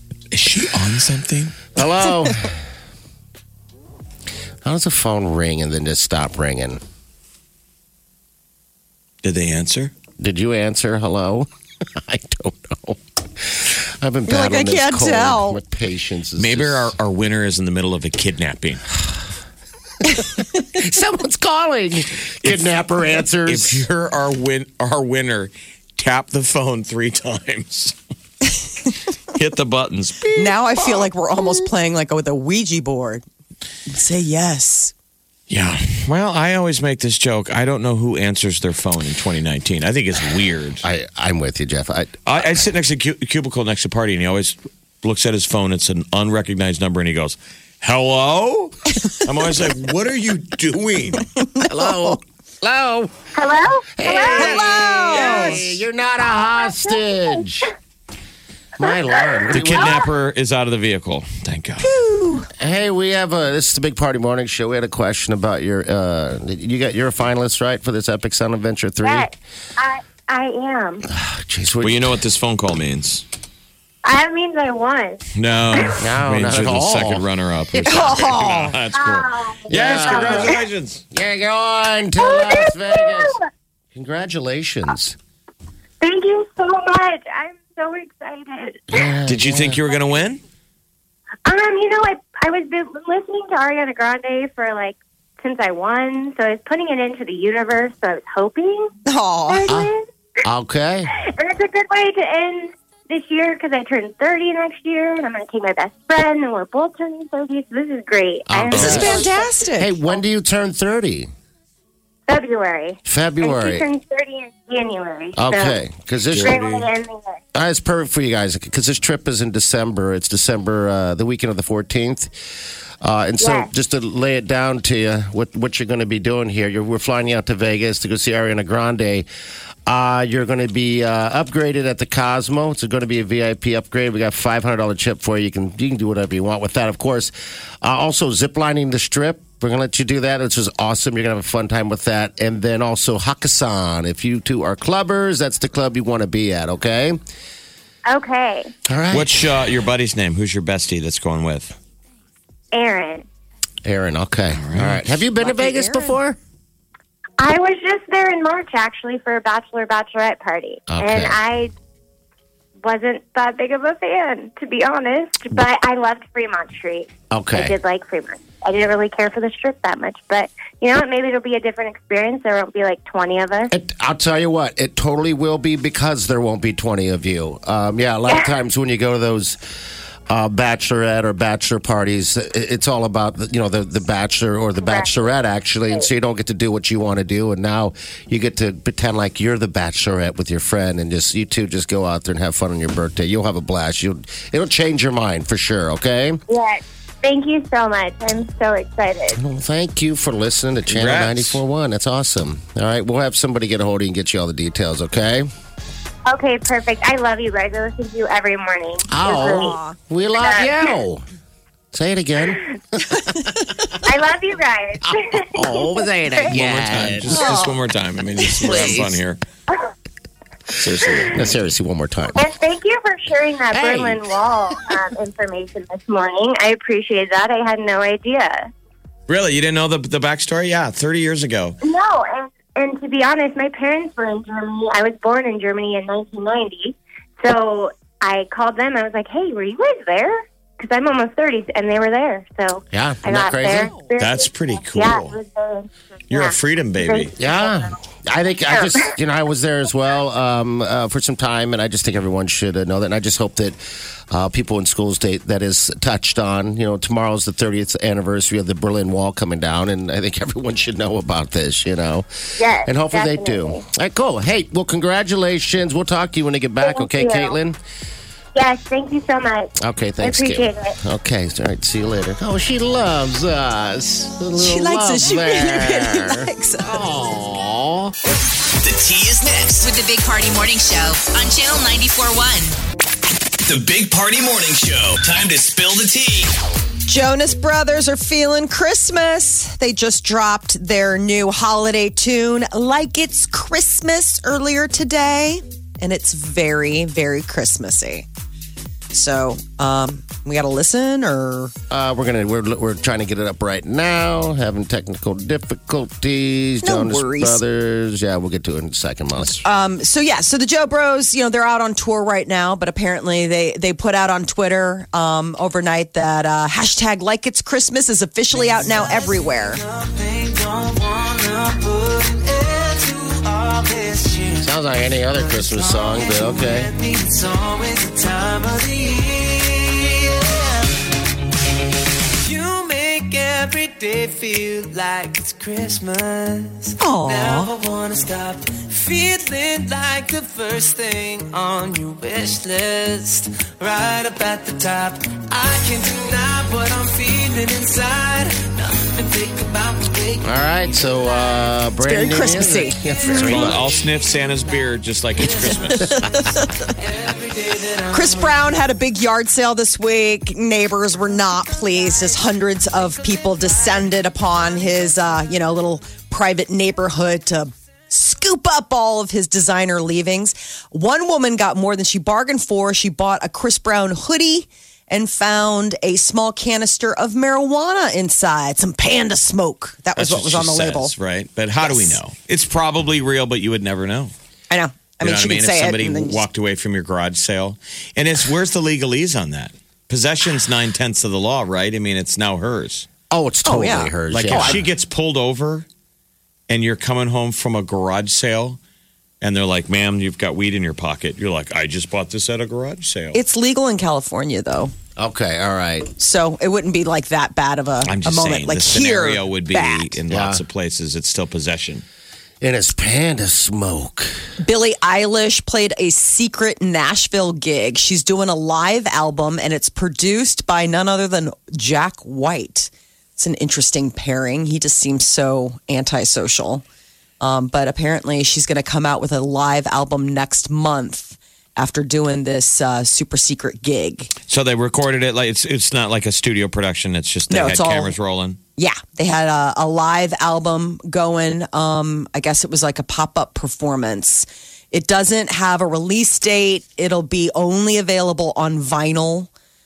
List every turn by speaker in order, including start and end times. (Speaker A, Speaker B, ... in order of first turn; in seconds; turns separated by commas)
Speaker A: 0.3-1.7, Speaker B: 1.8-2.6, Speaker B: 4.6-6.8, Speaker A: 9.2-9.9, Speaker B: 10.2-16.9, Speaker C: 14.3-15.6, Speaker A: 16.4-18.8, Speaker B: 20.2-23.9, Speaker A: 22.4-22.8, Speaker A: 23.4-28.0, Speaker A: 29.3-30.4, Speaker C: 30.4-33.2, Speaker C: 33.9-34.9, Speaker A: 35.5-40.8, Speaker B: 40.8-42.2, Speaker A: 42.3-51.3, Speaker B: 51.6-53.1, Speaker D: 53.4-55.5, Speaker B: 54.0-57.7, Speaker C: 54.3-55.6, Speaker D: 56.2-57.4, Speaker B: 58.8-60.1, Speaker D: 58.9-60.0, Speaker A: 59.5-61.9, Speaker C: 61.8-62.5, Speaker B: 62.6-69.3, Speaker D: 69.0-71.1, Speaker B: 71.1-72.2, Speaker A: 71.8-73.2, Speaker D: 74.0-75.2, Speaker A: 75.3-81.0, Speaker B: 76.0-78.4, Speaker C: 77.8-78.7, Speaker D: 79.0-80.6, Speaker B: 79.7-80.6, Speaker B: 81.1-83.4, Speaker D: 82.2-83.4, Speaker B: 83.9-85.2, Speaker D: 86.0-89.1, Speaker B: 88.9-89.8, Speaker A: 89.3-90.4, Speaker D: 91.5-98.9, Speaker C: 99.1-99.7, Speaker D: 99.5-100.1, Speaker B: 100.4-101.1, Speaker D: 101.2-109.6, Speaker B: 108.5-111.3, Speaker C: 108.7-109.9, Speaker D: 112.3-115.8, Speaker B: 113.1-113.8, Speaker B: 115.4-116.6, Speaker A: 116.3-116.9, Speaker D: 116.4-117.4, Speaker B: 117.5-122.3, Speaker B: 123.0-129.3, Speaker D: 123.4-123.7, Speaker B: 129.9-147.2, Speaker D: 148.1-148.7, Speaker B: 148.9-149.5, Speaker A: 149.1-151.8, Speaker D: 152.7-153.3, Speaker B: 153.8-156.4, Speaker A: 154.6-155.0, Speaker C: 155.4-156.2, Speaker D: 157.4-161.7, Speaker B: 160.9-161.4, Speaker D: 162.8-173.7, Speaker B: 167.3-167.8, Speaker B: 173.7-179.6, Speaker B: 180.3-196.4, Speaker D: 184.8-185.2, Speaker D: 196.5-199.4, Speaker B: 199.3-205.5, Speaker A: 200.9-201.6, Speaker D: 206.3-209.8, Speaker B: 209.1-211.2, Speaker C: 209.2-209.9, Speaker D: 210.4-210.9, Speaker B: 211.9-213.7, Speaker D: 214.0-216.5, Speaker B: 215.1-217.6, Speaker A: 216.5-219.4, Speaker C: 217.3-217.8, Speaker B: 218.6-219.2, Speaker C: 218.7-218.9, Speaker B: 220.8-222.5, Speaker D: 222.4-228.7, Speaker B: 223.7-224.2, Speaker A: 229.3-231.8, Speaker D: 231.8-247.9, Speaker B: 242.9-243.9, Speaker A: 244.2-245.4, Speaker A: 246.3-247.3, Speaker B: 247.4-253.8, Speaker D: 248.7-249.1, Speaker B: 254.3-267.8, Speaker D: 262.6-263.8, Speaker D: 266.8-267.6, Speaker D: 268.6-271.0, Speaker B: 269.8-278.1, Speaker C: 274.6-277.0, Speaker E: 278.8-279.9, Speaker F: 279.8-282.8, Speaker E: 283.6-286.5, Speaker C: 287.1-298.3, Speaker C: 299.1-301.7, Speaker B: 301.9-309.6, Speaker C: 306.8-307.6, Speaker C: 309.6-319.8, Speaker G: 318.5-330.9, Speaker B: 324.6-326.9, Speaker G: 332.4-351.6, Speaker C: 337.0-337.7, Speaker B: 350.4-354.0, Speaker C: 352.0-353.7, Speaker A: 353.3-356.2, Speaker G: 355.4-358.8, Speaker C: 356.2-356.7, Speaker C: 358.1-381.1, Speaker A: 380.2-384.3, Speaker C: 381.8-382.2, Speaker C: 384.7-386.4, Speaker A: 385.2-393.1, Speaker B: 393.3-394.9, Speaker C: 393.6-394.8, Speaker A: 394.3-395.9, Speaker A: 396.7-398.8, Speaker A: 399.4-403.4, Speaker C: 403.3-404.9, Speaker B: 405.2-406.1, Speaker C: 406.2-410.2, Speaker A: 408.1-412.1, Speaker B: 410.3-410.6, Speaker B: 412.6-414.4, Speaker C: 414.6-426.8, Speaker C: 427.4-434.3, Speaker A: 434.5-438.6, Speaker C: 437.5-438.1, Speaker C: 438.8-449.5